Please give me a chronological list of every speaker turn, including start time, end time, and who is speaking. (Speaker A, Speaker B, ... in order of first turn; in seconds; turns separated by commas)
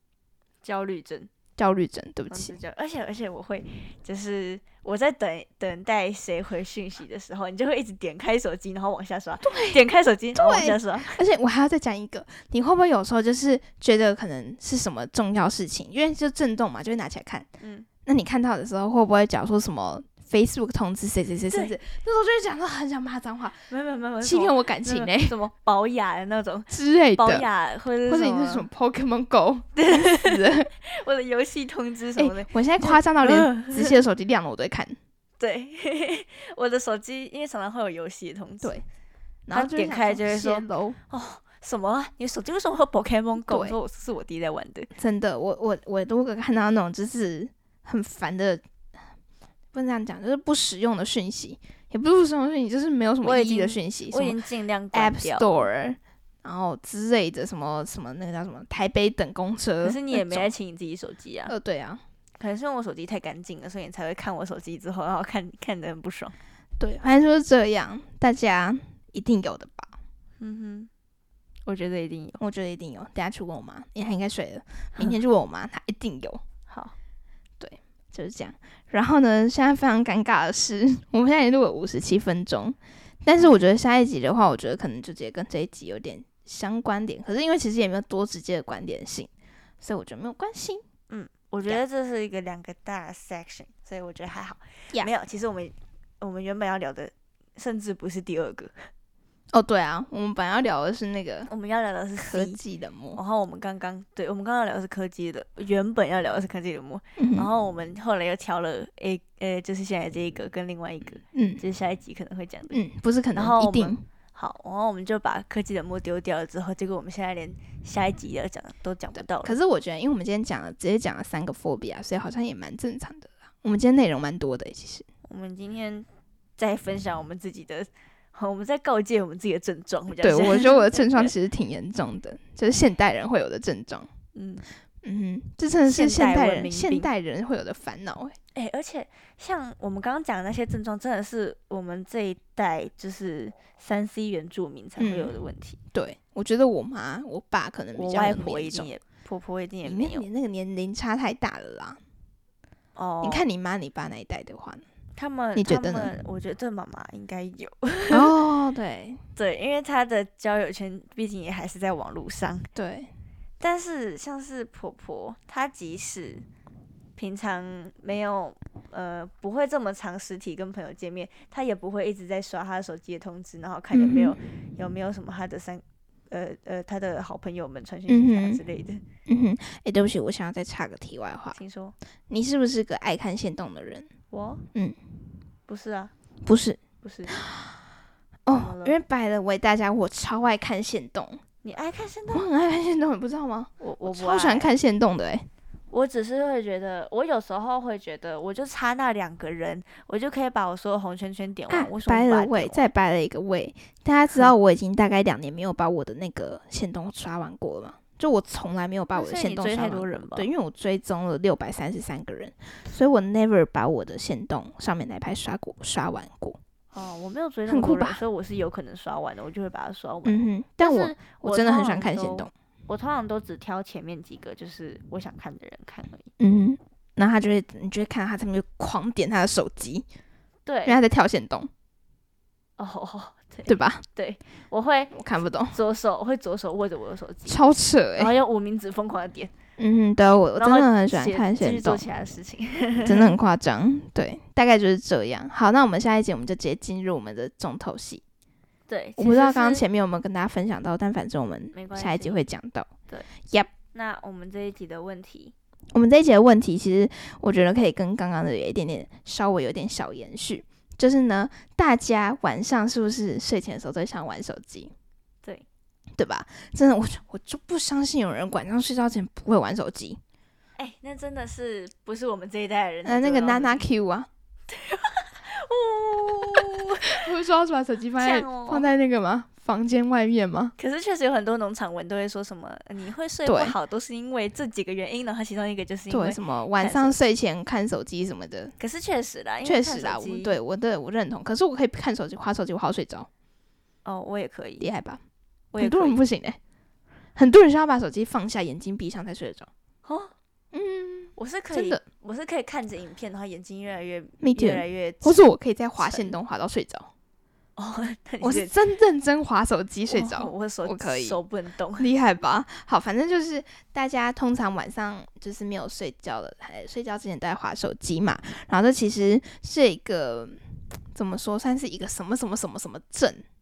Speaker A: 0.6-1.3, Speaker B: 1.6-2.5, Speaker A: 2.3-11.2, Speaker B: 9.4-9.8, Speaker B: 10.3-17.5, Speaker A: 17.6-17.9, Speaker B: 18.0-23.6, Speaker A: 21.5-21.7, Speaker A: 23.7-28.6, Speaker B: 24.2-25.3, Speaker B: 26.7-27.4, Speaker B: 28.1-30.7, Speaker A: 29.8-34.0, Speaker B: 32.2-35.0, Speaker A: 35.4-38.7, Speaker B: 39.5-41.0, Speaker A: 39.5-44.9, Speaker B: 43.5-43.8, Speaker B: 45.0-48.6, Speaker B: 49.7-54.4, Speaker A: 53.2-55.7, Speaker B: 54.9-60.5, Speaker A: 59.8-61.5, Speaker B: 61.5-62.0, Speaker A: 62.4-66.3, Speaker B: 66.8-70.0, Speaker A: 70.4-70.9, Speaker A: 71.7-72.4, Speaker B: 72.4-76.4, Speaker B: 77.6-89.3, Speaker B: 89.8-90.8, Speaker A: 91.1-98.9, Speaker B: 99.5-101.5, Speaker A: 101.5-102.6, Speaker B: 102.2-103.2, Speaker A: 103.1-112.8, Speaker B: 107.2-107.5, Speaker B: 111.3-111.6, Speaker B: 112.7-114.0, Speaker A: 113.3-119.5, Speaker B: 119.4-125.0, Speaker A: 125.2-126.0, Speaker A: 126.6-131.3, Speaker B: 130.2-134.1, Speaker A: 134.3-134.6, Speaker B: 135.0-138.3, Speaker A: 135.8-137.1, Speaker A: 138.5-145.8, Speaker B: 145.0-145.3, Speaker B: 145.9-148.9, Speaker A: 147.9-150.3, Speaker B: 149.8-152.0, Speaker A: 152.9-153.4, Speaker B: 153.2-154.8, Speaker A: 155.2-158.4, Speaker B: 155.5-156.1, Speaker B: 158.1-159.2, Speaker A: 159.3-162.7, Speaker B: 162.7-163.1, Speaker A: 163.6-166.4, Speaker A: 167.2-179.0, Speaker B: 173.9-174.4, Speaker B: 178.1-178.6, Speaker B: 179.2-181.6, Speaker A: 181.5-181.9, Speaker B: 182.3-184.1, Speaker A: 184.3-184.6, Speaker A: 185.7-186.1, Speaker B: 186.4-186.8, Speaker A: 187.0-187.4, Speaker B: 187.3-187.8, Speaker B: 188.5-191.4, Speaker A: 188.5-189.0, Speaker A: 191.6-192.5, Speaker B: 192.3-195.4, Speaker A: 193.8-194.7, Speaker A: 195.9-202.9, Speaker B: 201.7-216.6, Speaker A: 209.1-210.5, Speaker A: 216.9-226.3, Speaker B: 217.7-218.2, Speaker B: 220.2-222.5, Speaker B: 226.4-230.1, Speaker A: 230.7-231.0, Speaker B: 230.8-231.7, Speaker A: 232.8-235.1, Speaker B: 233.7-234.0, Speaker B: 235.1-235.8, Speaker A: 235.7-237.6, Speaker B: 237.5-238.3, Speaker A: 238.2-239.5, Speaker B: 239.8-242.0, Speaker A: 240.6-243.3, Speaker B: 243.0-248.2, Speaker A: 248.9-249.8, Speaker B: 249.2-252.9, Speaker A: 251.7-252.4, Speaker B: 253.4-253.7, Speaker A: 253.9-255.5, Speaker B: 255.9-264.9, Speaker B: 266.2-270.2, Speaker A: 270.8-273.8, Speaker B: 273.0-274.3, Speaker A: 274.7-277.2, Speaker B: 277.1-280.7, Speaker A: 278.2-278.9, Speaker A: 280.8-287.2, Speaker B: 283.4-283.8, Speaker B: 286.1-288.7, Speaker A: 288.8-290.6, Speaker B: 289.6-293.3, Speaker A: 294.0-294.8, Speaker B: 294.8-295.2, Speaker A: 295.7-296.2, Speaker B: 295.8-296.6, Speaker B: 297.4-299.7, Speaker A: 300.0-300.3, Speaker B: 300.7-302.0, Speaker A: 301.4-305.4, Speaker B: 304.4-307.1, Speaker A: 306.0-306.4, Speaker A: 307.8-308.8, Speaker B: 308.4-311.4, Speaker A: 310.1-312.1, Speaker B: 312.0-320.6, Speaker B: 321.1-323.4